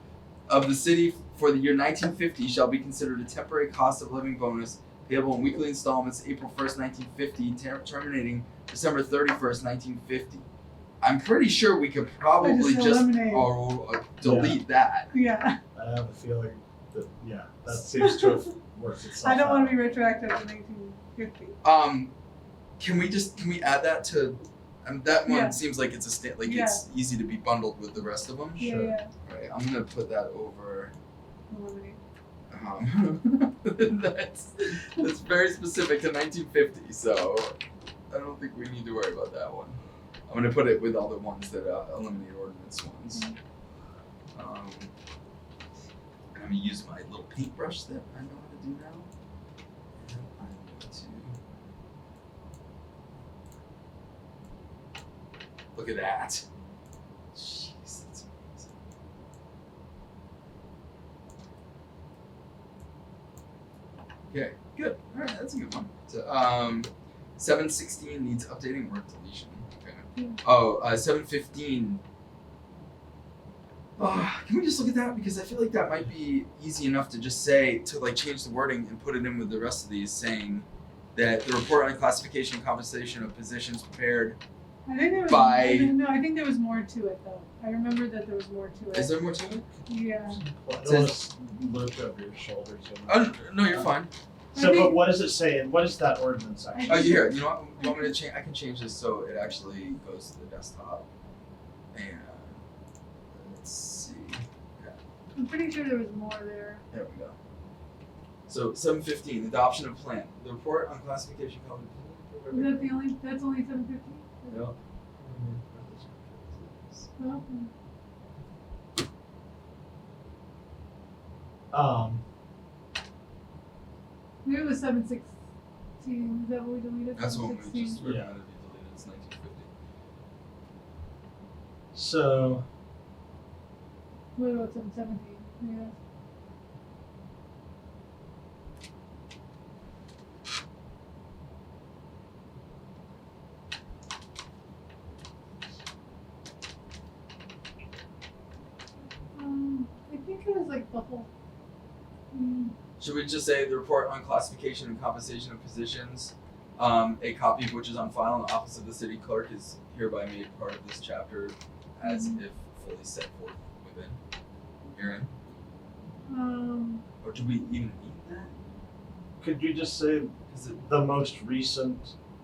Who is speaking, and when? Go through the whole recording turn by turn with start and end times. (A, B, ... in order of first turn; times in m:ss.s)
0:00.5-0:10.5 A
0:11.0-0:15.1 A
0:12.4-0:13.5 B
0:14.2-0:14.6 C
0:15.1-0:15.6 B
0:15.7-0:19.8 C
0:17.9-0:18.5 B
0:19.2-0:21.6 B
0:21.6-0:22.1 A
0:22.8-0:28.6 A
0:25.2-0:25.6 B
0:26.4-0:26.8 B
0:28.6-0:28.9 C
0:28.6-0:29.1 B
0:29.2-0:30.9 A
0:31.5-0:32.0 B
0:32.5-0:37.5 A
0:38.1-0:43.3 A
0:44.3-0:44.9 A
0:46.3-0:49.1 A
0:50.0-0:51.4 A
0:55.7-0:56.4 A
0:57.3-0:58.7 A
1:04.3-1:12.0 A
1:10.2-1:10.4 B
1:14.0-1:24.4 A
1:24.8-1:30.4 B
1:25.3-1:26.0 A
1:28.9-1:29.6 A
1:30.3-1:34.0 C
1:30.8-1:31.2 A
1:33.0-1:34.1 A
1:34.5-1:35.1 B
1:34.5-1:37.3 C
1:36.7-1:38.1 B
1:36.9-1:41.1 A
1:41.9-1:42.6 A
1:43.3-1:45.0 A
1:45.4-1:46.8 B
1:46.9-1:47.4 A
1:48.5-1:53.0 A
1:52.5-1:54.6 B
1:54.5-1:57.1 A
1:57.2-1:57.7 B
2:01.7-2:02.2 C
2:04.4-2:05.3 B
2:06.0-2:08.0 B
2:07.1-2:09.7 A
2:08.0-2:08.3 C
2:11.9-2:12.6 C
2:14.4-2:15.9 B
2:29.3-2:31.3 B
2:32.3-2:32.7 B
2:33.0-2:44.2 A
2:42.0-2:42.4 B
2:44.9-2:45.3 A
2:46.2-2:47.0 B
2:47.2-2:48.5 A
2:49.4-2:52.1 C
2:50.5-2:50.8 A